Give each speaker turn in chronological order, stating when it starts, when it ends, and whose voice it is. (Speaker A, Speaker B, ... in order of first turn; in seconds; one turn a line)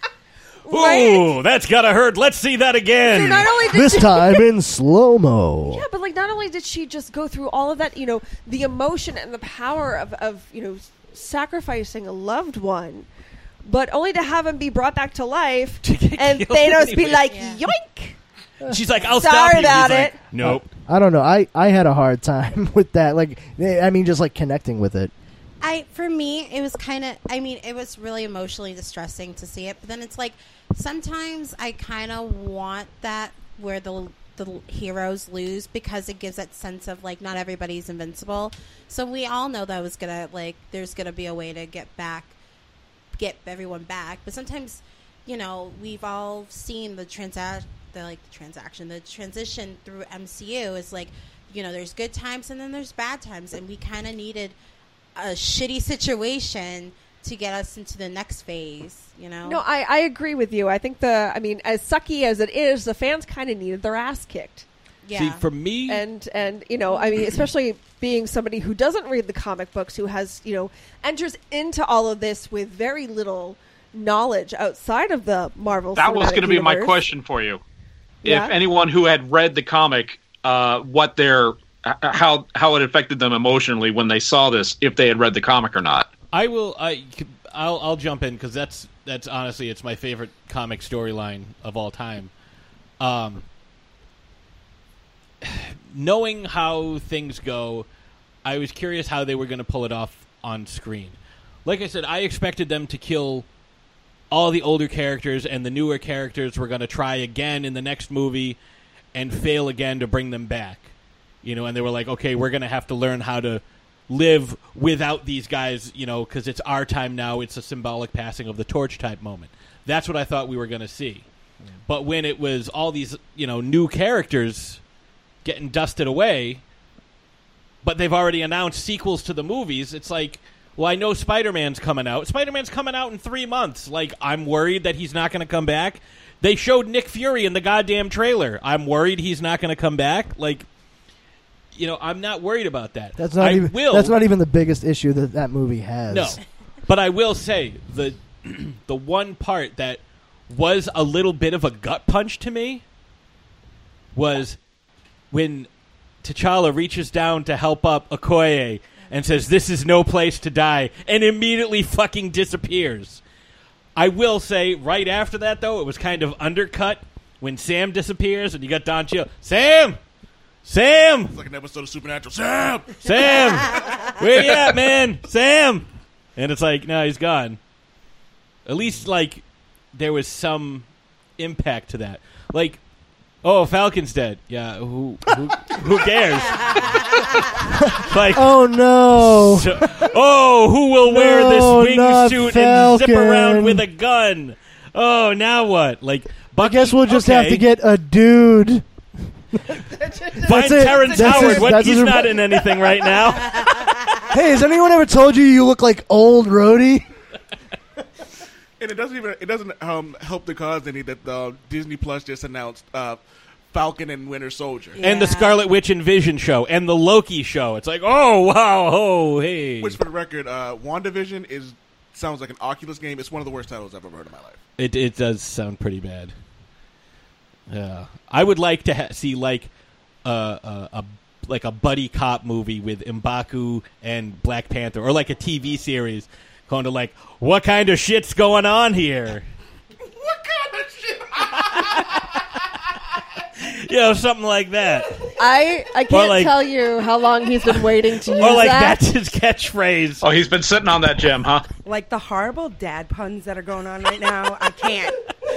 Speaker A: 0.7-1.3
Speaker B: 0.7-3.5
Speaker A: 3.1-4.4
Speaker C: 3.7-5.8
Speaker A: 5.7-13.1
Speaker A: 13.6-18.2
Speaker B: 15.8-17.3
Speaker D: 17.2-17.7
Speaker B: 18.6-20.7
Speaker A: 19.1-20.1
Speaker C: 20.4-25.1
Speaker D: 25.6-42.4
Speaker D: 43.1-54.6
Speaker D: 55.1-59.6
Speaker A: 59.4-64.7
Speaker D: 65.0-65.4
Speaker B: 65.1-66.0
Speaker A: 65.9-77.1
Speaker E: 76.0-77.6
Speaker E: 78.2-86.1
Speaker A: 78.2-78.5
Speaker B: 86.3-92.3
Speaker B: 93.0-93.4
Speaker B: 95.4-97.9
Speaker B: 98.4-103.5
Speaker B: 104.3-108.6
Speaker B: 109.1-121.3
Speaker B: 121.8-124.8
Speaker B: 125.4-126.6
Speaker B: 127.8-140.7
Speaker B: 141.7-144.2
Speaker C: 143.2-146.4
Speaker B: 146.1-152.8
Speaker B: 154.1-154.6
Speaker B: 155.3-155.7
Speaker B: 156.2-163.2
Speaker B: 163.9-170.0
Speaker B: 170.6-171.4
Speaker F: 171.3-173.2
Speaker B: 173.0-177.6
Speaker B: 178.7-179.4
Speaker B: 179.9-180.9
Speaker B: 181.4-182.8
Speaker B: 183.4-187.0
Speaker D: 186.3-187.6
Speaker C: 187.8-190.0
Speaker B: 187.8-188.6
Speaker B: 189.1-197.7
Speaker C: 191.1-193.8
Speaker C: 196.6-198.8
Speaker C: 199.5-202.8
Speaker B: 200.3-203.9
Speaker C: 204.3-207.0
Speaker F: 208.8-215.0
Speaker D: 214.9-215.6
Speaker B: 215.0-220.0
Speaker F: 219.8-224.6
Speaker B: 224.8-226.3
Speaker B: 227.7-229.7
Speaker B: 230.2-239.4
Speaker F: 240.5-241.3
Speaker B: 241.4-242.4
Speaker B: 243.6-245.2
Speaker A: 245.4-249.0
Speaker B: 246.1-246.5
Speaker B: 248.4-250.2
Speaker E: 250.2-251.6
Speaker G: 251.8-255.2